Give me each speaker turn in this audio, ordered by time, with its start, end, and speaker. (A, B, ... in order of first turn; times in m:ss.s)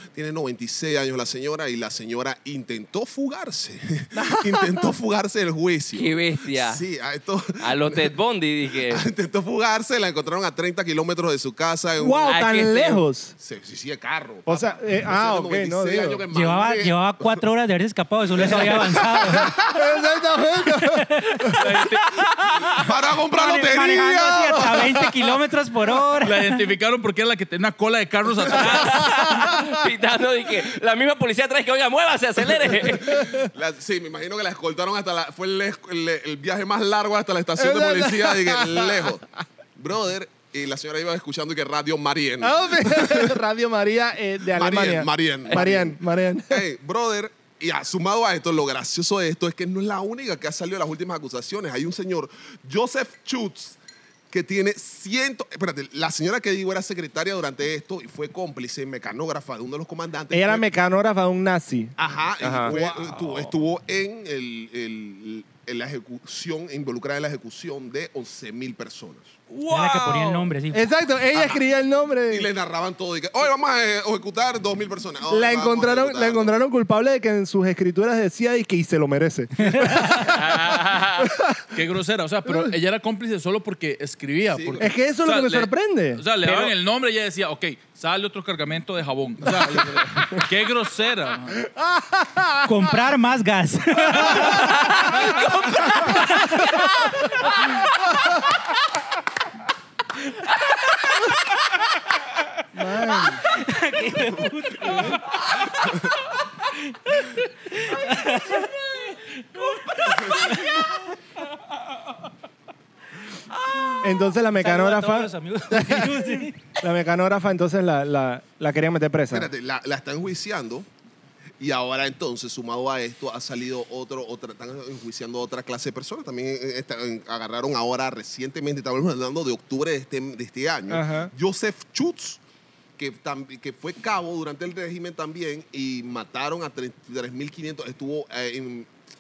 0:00.1-0:08.2 A
0:04.1-0:04.9 B
0:05.9-0:06.8 C
0:07.6-0:09.1 C
0:08.7-0:12.4 A
0:12.0-0:13.4 B
0:12.3-0:13.0 C
0:13.4-0:17.4 A
0:14.5-0:16.2 B
0:16.3-0:19.6 D
0:18.4-0:19.8 A
0:18.4-0:18.7 B
0:19.2-0:21.6 B
0:20.8-0:21.5 D
0:21.5-0:22.9 C
0:22.7-0:25.3 A
0:23.3-0:26.5 D
0:26.2-0:29.4 E
0:28.6-0:33.2 C
0:28.8-0:29.7 B
0:32.9-0:39.2 A
0:37.6-0:39.2 B
0:39.8-0:43.4 A
0:42.4-0:46.6 B
0:44.5-0:53.8 A
0:54.3-1:00.7 A
1:00.3-1:01.9 B
1:02.0-1:09.4 A
1:02.4-1:02.7 C
1:02.6-1:03.2 B
1:09.5-1:10.5 C
1:09.7-1:10.9 D
1:10.7-1:12.5 B
1:11.3-1:11.6 A
1:12.3-1:16.6 A
1:15.3-1:21.6 B
1:20.2-1:21.3 C
1:21.7-1:31.6 E
1:22.5-1:22.7 B
1:24.5-1:24.9 A
1:24.8-1:26.2 B
1:26.4-1:26.7 C
1:31.6-1:32.9 B
1:32.6-1:36.9 D
1:34.1-1:35.3 B
1:34.6-1:35.5 C
1:40.8-1:41.2 C
1:42.7-1:43.4 B
1:43.4-1:45.3 D
1:47.1-1:48.7 D
1:48.0-1:50.9 C
1:49.6-1:50.8 D
1:53.5-1:54.1 C
1:54.0-1:59.5 B
1:54.6-1:56.6 D
1:59.3-2:00.9 A
2:01.6-2:12.4 A
2:10.9-2:11.3 B
2:13.0-2:18.9 A